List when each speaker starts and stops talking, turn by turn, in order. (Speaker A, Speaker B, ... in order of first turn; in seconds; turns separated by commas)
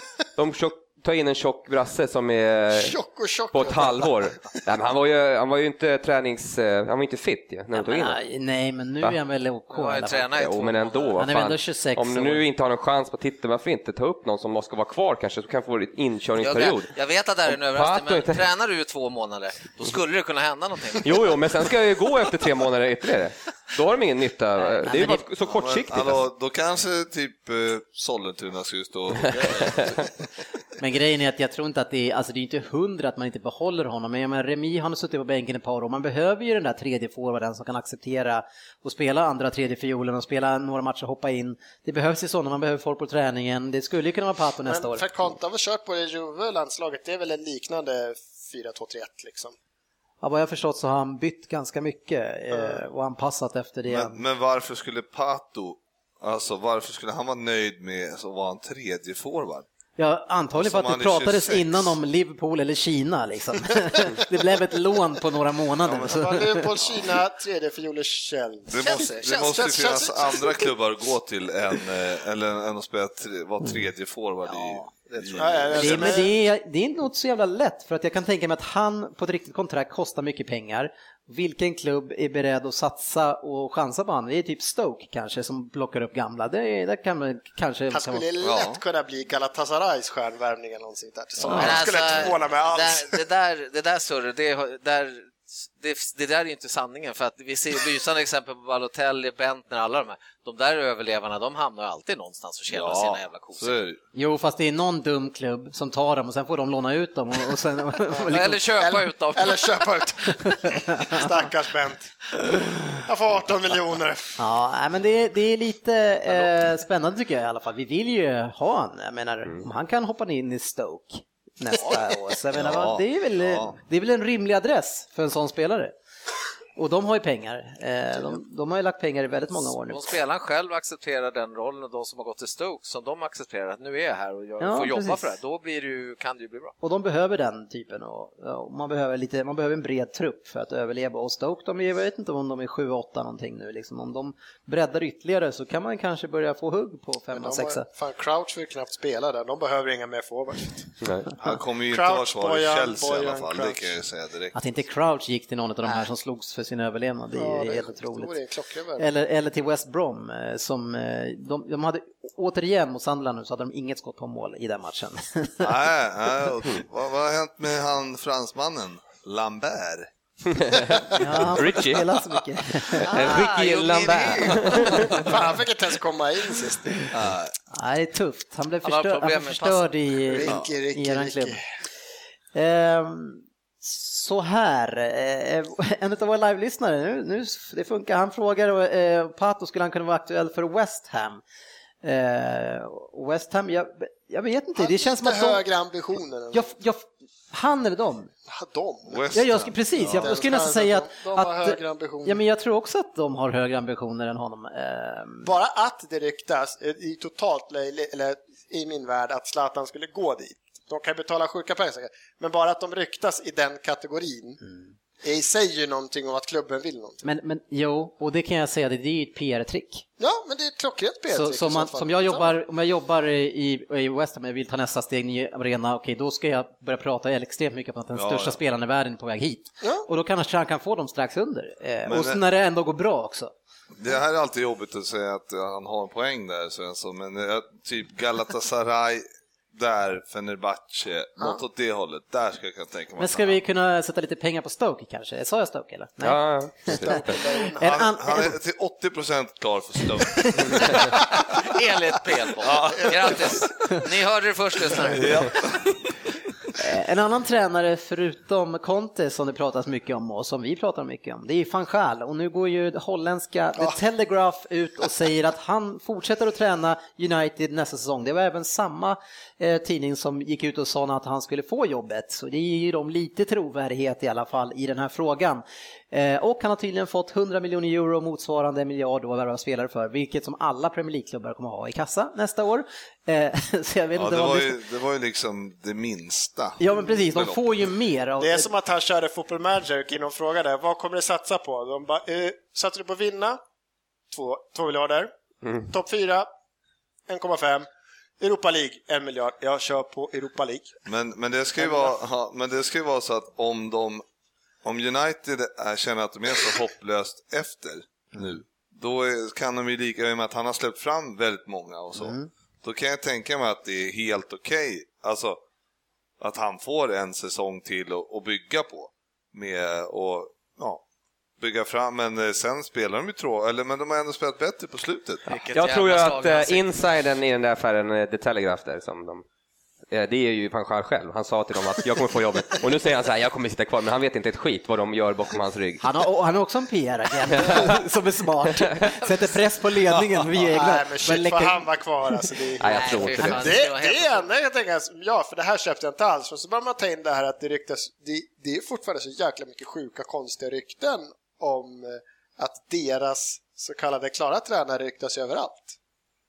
Speaker A: 0.4-3.0, Speaker B: 2.7-4.6, Speaker A: 3.5-8.2, Speaker C: 7.7-10.3, Speaker D: 9.7-11.2, Speaker A: 10.3-16.9, Speaker C: 11.2-12.4, Speaker D: 16.4-21.3, Speaker A: 17.5-18.4, Speaker A: 21.0-26.2, Speaker C: 24.8-25.2, Speaker E: 25.5-30.1, Speaker C: 30.8-45.3, Speaker B: 44.7-49.5, Speaker C: 50.2-54.2, Speaker E: 53.9-59.7, Speaker C: 60.0-66.7, Speaker E: 60.6-62.0, Speaker E: 65.8-67.2, Speaker B: 66.0-70.7, Speaker E: 68.7-76.2, Speaker D: 68.8-70.1, Speaker D: 74.5-76.1, Speaker B: 75.4-76.3, Speaker C: 75.7-88.2, Speaker B: 87.9-93.2, Speaker E: 88.4-88.8, Speaker E: 91.4-92.3, Speaker D: 91.5-103.8, Speaker E: 102.7-104.0, Speaker C: 104.2-108.6, Speaker B: 108.2-112.1, Speaker D: 108.2-109.8, Speaker C: 110.5-111.2, Speaker B: 112.9-114.4, Speaker C: 114.4-125.9, Speaker E: 122.5-123.8, Speaker C: 126.8-130.0, Speaker D: 129.9-136.8, Speaker C: 134.6-135.3, Speaker C: 136.8-147.9, Speaker B: 147.3-150.9, Speaker E: 151.4-154.6, Speaker B: 151.9-153.9, Speaker C: 154.6-158.3, Speaker B: 157.4-159.1, Speaker C: 159.0-165.7, Speaker E: 165.6-171.0, Speaker A: 170.6-170.9, Speaker C: 171.1-173.6, Speaker A: 171.5-172.1, Speaker A: 173.0-175.3, Speaker D: 173.1-175.3, Speaker B: 175.1-177.1, Speaker E: 177.1-177.6, Speaker C: 177.7-181.6, Speaker D: 178.8-179.8, Speaker B: 180.3-181.6, Speaker C: 182.6-191.4, Speaker C: 192.0-195.6, Speaker B: 194.8-196.7, Speaker C: 196.5-198.3, Speaker B: 198.5-199.3, Speaker E: 199.1-200.4, Speaker C: 199.3-205.5, Speaker B: 200.2-202.4, Speaker B: 205.4-214.6, Speaker C: 214.7-214.9, Speaker B: 215.2-217.2, Speaker C: 217.2-220.1, Speaker B: 220.2-222.5, Speaker C: 221.3-233.5, Speaker E: 228.2-228.6, Speaker B: 229.8-230.1, Speaker E: 232.1-232.4, Speaker E: 234.0-243.6, Speaker C: 243.2-248.5, Speaker A: 246.2-247.4, Speaker B: 246.9-247.9, Speaker E: 247.8-251.2, Speaker C: 250.3-250.9, Speaker D: 251.4-255.5, Speaker E: 252.6-253.6, Speaker E: 255.0-255.9, Speaker C: 256.8-284.8, Speaker E: 284.2-287.8, Speaker C: 286.8-288.7, Speaker B: 288.4-293.6, Speaker B: 294.3-295.3, Speaker A: 295.6-295.9, Speaker B: 295.9-296.5, Speaker B: 297.3-297.9, Speaker B: 298.4-300.9, Speaker E: 301.1-304.2, Speaker B: 301.8-302.1, Speaker E: 304.8-315.6, Speaker C: 312.2-312.5, Speaker E: 316.4-321.0, Speaker E: 321.6-325.4, Speaker D: 325.5-326.9, Speaker A: 325.7-329.4, Speaker A: 330.1-336.0, Speaker C: 336.0-341.9, Speaker A: 337.5-337.9, Speaker B: 340.6-355.9, Speaker A: 342.8-343.8, Speaker D: 342.8-344.5